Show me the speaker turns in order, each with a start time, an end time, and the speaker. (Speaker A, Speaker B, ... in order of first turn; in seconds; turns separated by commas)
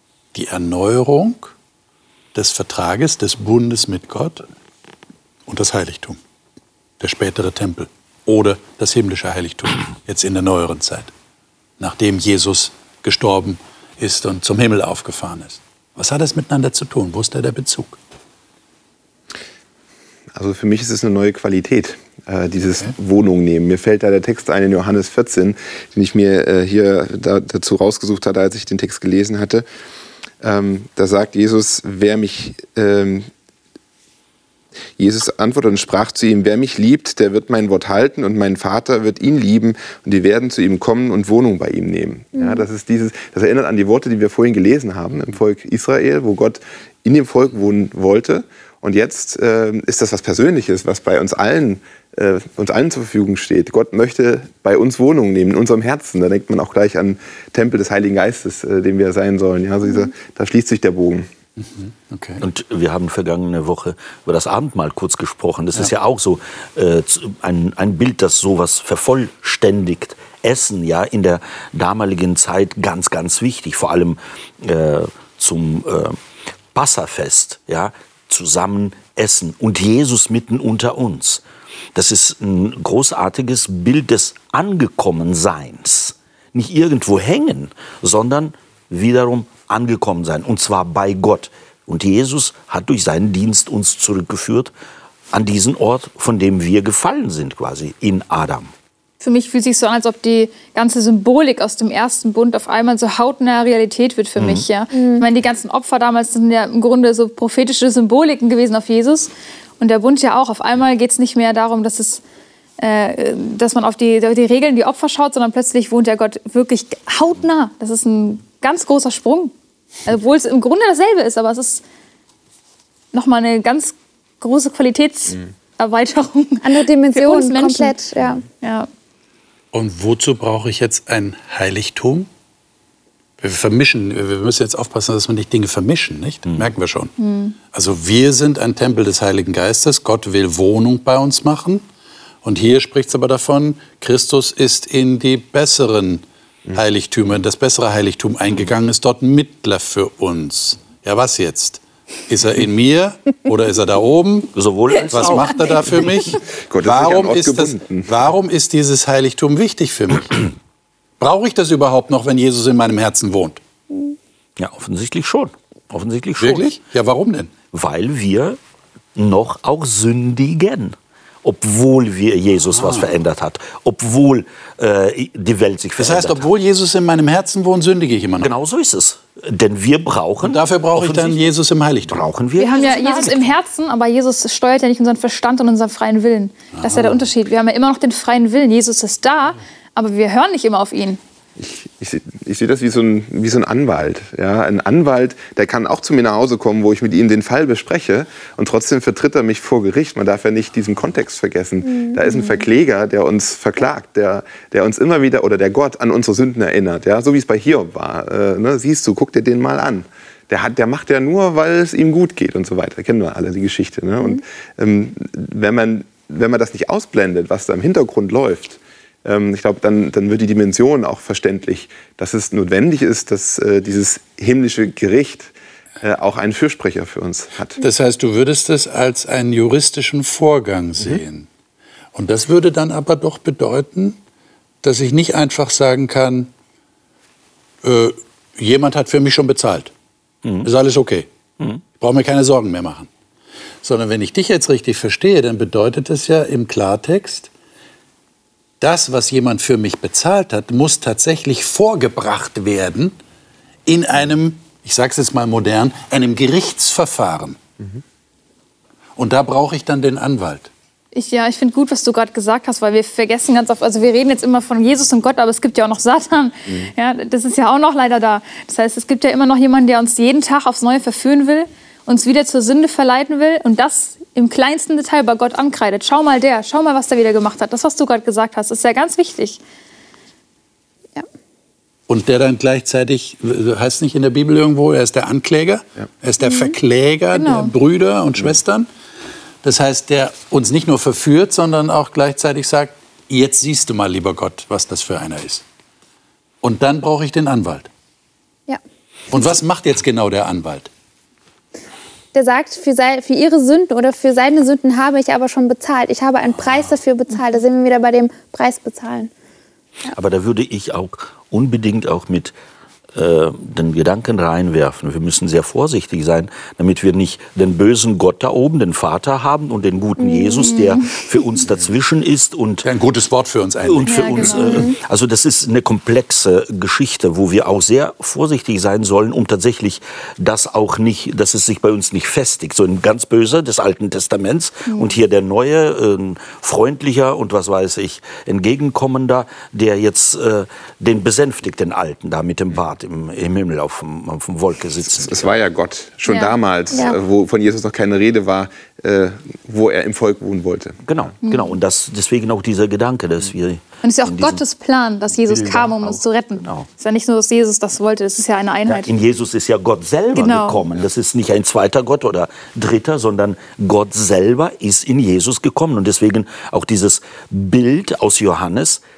Speaker A: 0.3-1.5, Speaker A: 2.3-4.5, Speaker A: 5.5-6.2, Speaker A: 7.0-11.1, Speaker A: 11.8-18.0, Speaker B: 20.3-29.6, Speaker B: 30.4-33.3, Speaker B: 35.0-61.3, Speaker C: 42.4-42.6, Speaker A: 61.6-62.4, Speaker D: 62.4-76.2, Speaker D: 76.7-81.4, Speaker D: 81.9-94.7, Speaker D: 95.3-98.7, Speaker E: 99.2-112.2, Speaker D: 104.4-104.6, Speaker C: 104.9-105.3, Speaker E: 112.8-119.5, Speaker E: 120.0-121.8, Speaker E: 123.1-128.9, Speaker C: 126.6-128.4, Speaker A: 129.7-132.3, Speaker A: 133.4-137.1, Speaker E: 137.2-137.6, Speaker A: 137.7-141.8, Speaker A: 142.4-154.5, Speaker D: 154.5-155.7, Speaker A: 155.1-160.5, Speaker B: 156.7-158.1, Speaker A: 161.2-163.6, Speaker D: 164.6-166.7, Speaker A: 166.4-167.5, Speaker D: 167.7-168.6, Speaker D: 169.2-176.4, Speaker A: 172.7-173.1, Speaker A: 176.0-178.5, Speaker D: 178.4-181.4, Speaker A: 180.4-182.2, Speaker D: 182.1-183.5, Speaker E: 182.6-191.2, Speaker A: 186.7-187.2, Speaker B: 191.6-227.8, Speaker A: 227.8-231.5, Speaker A: 232.1-234.2, Speaker A: 234.8-236.5, Speaker A: 237.8-239.9, Speaker A: 240.6-241.3, Speaker A: 242.0-243.1, Speaker A: 243.8-247.5, Speaker A: 248.8-253.2, Speaker A: 253.8-257.6, Speaker A: 259.1-260.7, Speaker E: 261.1-279.6, Speaker A: 282.1-288.9, Speaker C: 286.4-286.7, Speaker E: 287.3-287.7, Speaker A: 289.6-295.6, Speaker A: 296.6-297.9, Speaker A: 299.3-300.9, Speaker C: 302.3-309.3, Speaker D: 310.1-312.5, Speaker D: 313.1-322.9, Speaker C: 320.2-320.8, Speaker E: 320.7-321.2, Speaker A: 322.8-324.6, Speaker D: 323.8-345.5, Speaker E: 324.0-324.9, Speaker C: 324.5-324.9, Speaker B: 345.1-351.0, Speaker E: 346.3-346.5, Speaker D: 351.0-354.6, Speaker E: 351.4-351.8, Speaker E: 354.0-359.1, Speaker D: 355.3-356.9, Speaker D: 358.9-369.0, Speaker E: 360.3-360.8